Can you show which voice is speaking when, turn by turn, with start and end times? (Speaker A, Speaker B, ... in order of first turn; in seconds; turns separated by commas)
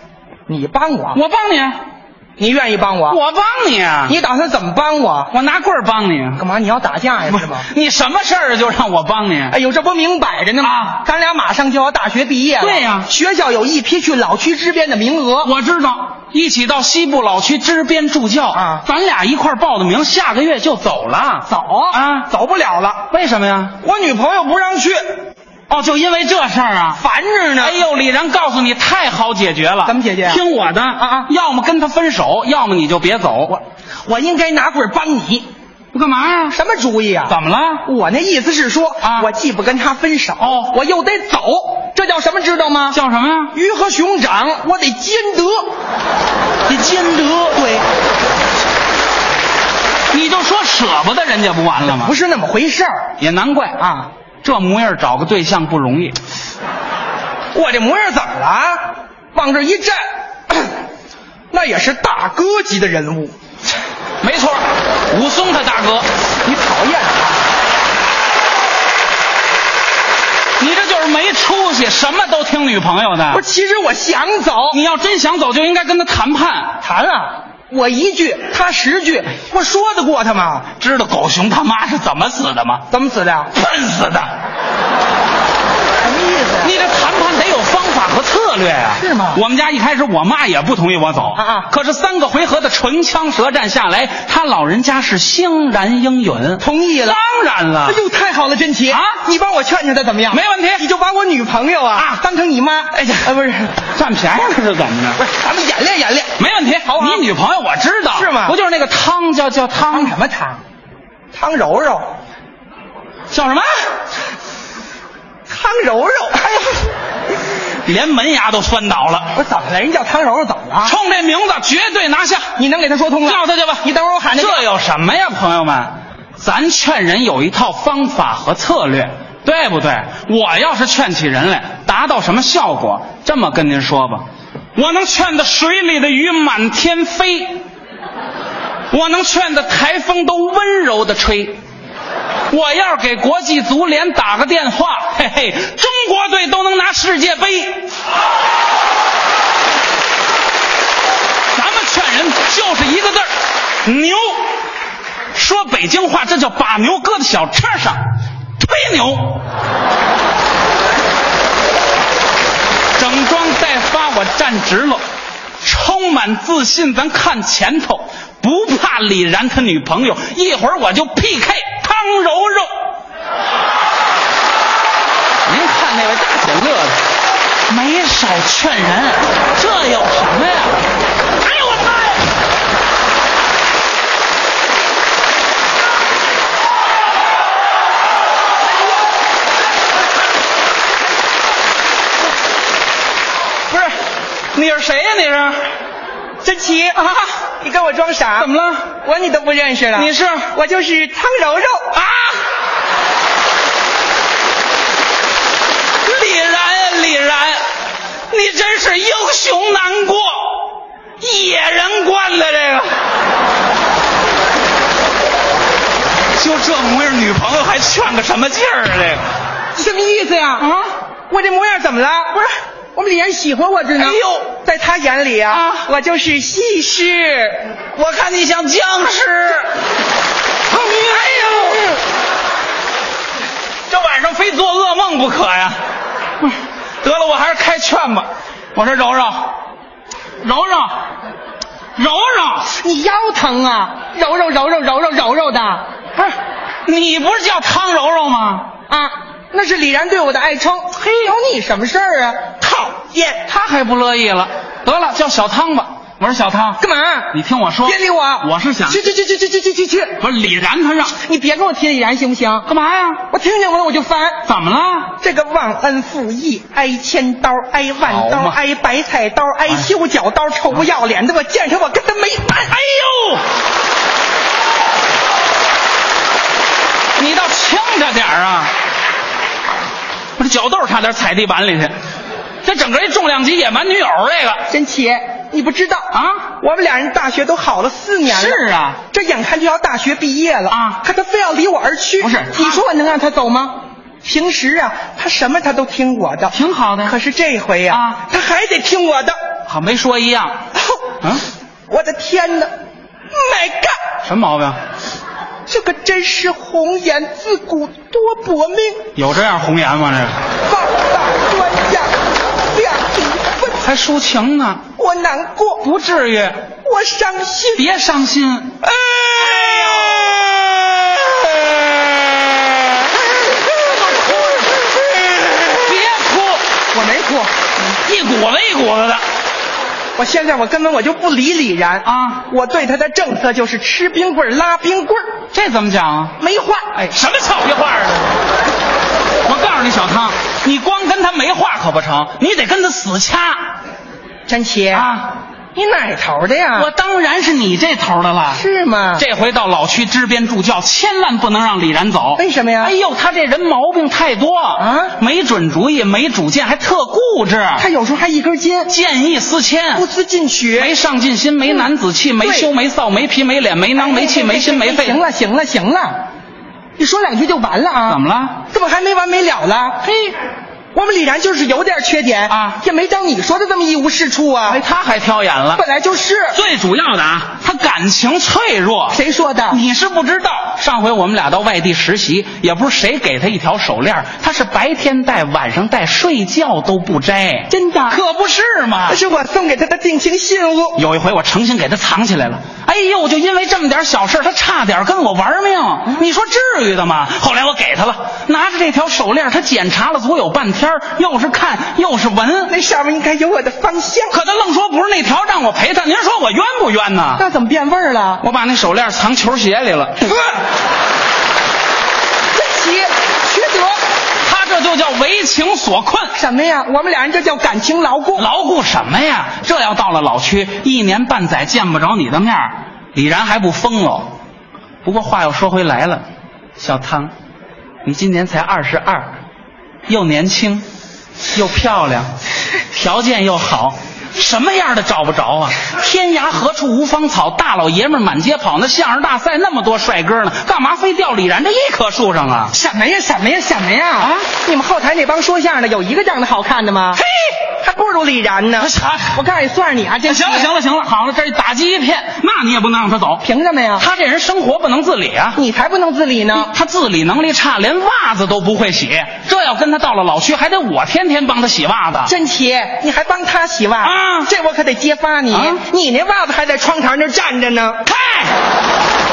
Speaker A: 0.5-1.2, Speaker B: 1.1-1.8, Speaker A: 2.4-3.2, Speaker B: 3.1-4.2, Speaker A: 4.0-5.3, Speaker B: 5.3-6.4, Speaker A: 6.3-7.7, Speaker B: 7.3-9.6, Speaker A: 9.5-15.5, Speaker B: 10.6-11.0, Speaker B: 12.6-13.1, Speaker B: 15.4-22.3, Speaker A: 18.5-18.9, Speaker A: 21.5-23.1, Speaker B: 23.1-23.8, Speaker A: 23.8-25.0, Speaker B: 25.7-27.0, Speaker A: 26.9-27.8, Speaker B: 27.6-33.6, Speaker A: 29.8-30.4, Speaker A: 31.0-31.3, Speaker A: 34.0-35.5, Speaker B: 35.9-36.5, Speaker A: 36.5-43.0, Speaker B: 37.3-37.8, Speaker B: 39.0-39.3, Speaker B: 40.4-40.7, Speaker B: 42.9-43.5, Speaker A: 43.5-45.7, Speaker B: 46.7-47.6, Speaker A: 47.5-47.9, Speaker B: 50.1-52.1, Speaker A: 51.8-53.1, Speaker B: 53.2-53.8, Speaker A: 53.8-54.1, Speaker B: 54.4-56.1, Speaker A: 57.5-60.7, Speaker A: 61.5-63.3, Speaker B: 64.2-66.1, Speaker A: 66.4-67.4, Speaker B: 70.6-73.4, Speaker A: 73.3-74.8, Speaker B: 74.7-76.8, Speaker A: 76.8-80.6, Speaker B: 80.6-82.8, Speaker A: 82.9-83.5, Speaker B: 83.5-84.3, Speaker A: 86.0-86.8, Speaker B: 86.6-98.0, Speaker A: 89.0-89.4, Speaker A: 91.3-91.7, Speaker A: 96.6-97.2, Speaker A: 97.8-103.8, Speaker B: 100.3-100.8, Speaker B: 102.9-103.3, Speaker B: 103.8-105.2, Speaker A: 105.2-107.2, Speaker B: 106.4-110.1, Speaker A: 108.1-108.6, Speaker A: 109.8-110.6, Speaker A: 111.3-112.0, Speaker B: 113.3-113.7, Speaker A: 115.5-116.8, Speaker B: 117.7-119.3, Speaker A: 119.3-120.9, Speaker B: 120.8-122.5, Speaker A: 122.5-124.6, Speaker B: 123.2-134.2, Speaker B: 134.8-137.6, Speaker B: 138.9-141.6, Speaker B: 142.5-147.9, Speaker B: 151.5-153.3, Speaker B: 153.8-154.4, Speaker B: 155.3-158.0, Speaker B: 158.6-159.4, Speaker B: 163.0-165.0, Speaker B: 165.6-172.7, Speaker B: 175.4-177.0, Speaker B: 177.7-180.8, Speaker B: 181.4-182.1, Speaker B: 193.7-193.9, Speaker B: 194.5-195.7, Speaker A: 196.4-197.0, Speaker B: 197.0-197.3, Speaker A: 197.6-198.5, Speaker B: 198.4-198.9, Speaker A: 199.0-201.9, Speaker B: 199.9-200.5, Speaker B: 201.9-202.4, Speaker B: 206.0-207.6, Speaker B: 208.3-210.6, Speaker B: 211.2-212.9, Speaker B: 216.4-219.2, Speaker A: 219.7-220.7, Speaker B: 220.6-220.9, Speaker A: 221.3-227.6, Speaker B: 224.0-224.6, Speaker B: 225.5-225.8, Speaker B: 227.9-229.7, Speaker B: 230.7-231.9, Speaker B: 233.9-235.8, Speaker B: 236.4-239.5, Speaker B: 240.4-241.0, Speaker B: 241.9-242.7, Speaker A: 242.7-245.8, Speaker B: 246.8-248.7, Speaker A: 248.9-253.4, Speaker B: 253.5-256.8, Speaker A: 256.8-260.2, Speaker B: 257.3-259.1, Speaker B: 260.2-261.1, Speaker A: 261.2-262.6, Speaker B: 262.6-263.2, Speaker A: 263.3-264.4, Speaker B: 264.4-265.1, Speaker A: 265.2-272.8, Speaker B: 268.0-268.6, Speaker B: 272.7-273.4, Speaker B: 277.2-278.7, Speaker B: 280.4-281.9, Speaker B: 282.6-284.6, Speaker A: 284.7-299.3, Speaker B: 286.1-286.5, Speaker B: 288.2-289.0, Speaker B: 290.7-291.0, Speaker B: 292.2-292.8, Speaker B: 296.5-297.1, Speaker B: 297.9-298.2, Speaker B: 299.7-300.6, Speaker A: 301.9-302.7, Speaker A: 303.3-304.0, Speaker B: 304.2-304.8, Speaker A: 305.7-309.1, Speaker B: 309.1-310.4, Speaker A: 310.6-312.1, Speaker A: 312.7-313.8, Speaker B: 313.8-314.8, Speaker A: 315.0-315.9, Speaker B: 315.8-316.6, Speaker A: 316.8-318.0, Speaker B: 317.8-318.8, Speaker A: 318.8-321.4, Speaker B: 323.8-324.7, Speaker A: 323.8-325.8, Speaker B: 325.8-326.6, Speaker A: 326.9-327.5, Speaker B: 327.9-329.2, Speaker A: 330.1-335.2, Speaker B: 332.0-332.4, Speaker B: 335.5-336.4, Speaker A: 336.4-337.0, Speaker B: 336.9-338.3, Speaker B: 339.4-343.7, Speaker A: 344.5-345.1, Speaker B: 344.9-345.3, Speaker A: 345.7-346.9, Speaker B: 346.7-348.6, Speaker A: 348.5-349.2, Speaker B: 349.1-357.9, Speaker A: 352.4-352.9, Speaker A: 354.8-355.1, Speaker A: 357.8-358.9, Speaker B: 358.9-360.1, Speaker A: 359.9-360.9, Speaker B: 360.7-365.2, Speaker A: 362.4-362.7, Speaker A: 363.9-366.2, Speaker A: 367.0-370.3, Speaker B: 368.1-368.6, Speaker A: 370.9-374.8, Speaker B: 372.5-372.8, Speaker B: 374.6-375.8, Speaker A: 375.7-376.6, Speaker B: 376.5-389.2, Speaker A: 379.1-379.8, Speaker A: 387.7-388.2, Speaker A: 389.1-391.0, Speaker B: 390.9-402.7, Speaker A: 402.7-404.4, Speaker B: 404.3-407.4, Speaker A: 407.4-408.4, Speaker B: 408.4-410.4, Speaker A: 412.5-414.0, Speaker B: 414.4-416.3, Speaker A: 416.3-418.5, Speaker B: 418.4-424.3, Speaker B: 425.0-426.2, Speaker B: 426.8-427.3, Speaker B: 428.0-429.3, Speaker B: 430.1-430.8, Speaker B: 431.5-432.3, Speaker B: 432.9-442.7, Speaker A: 442.7-447.2, Speaker B: 444.2-444.5, Speaker B: 447.1-447.6, Speaker A: 447.8-450.7, Speaker B: 448.8-449.4, Speaker B: 450.2-453.4, Speaker A: 453.4-454.1, Speaker B: 454.0-455.6, Speaker A: 455.5-456.7, Speaker B: 456.5-462.3, Speaker A: 462.2-468.0, Speaker B: 464.0-464.5, Speaker B: 465.5-465.8, Speaker B: 468.1-468.5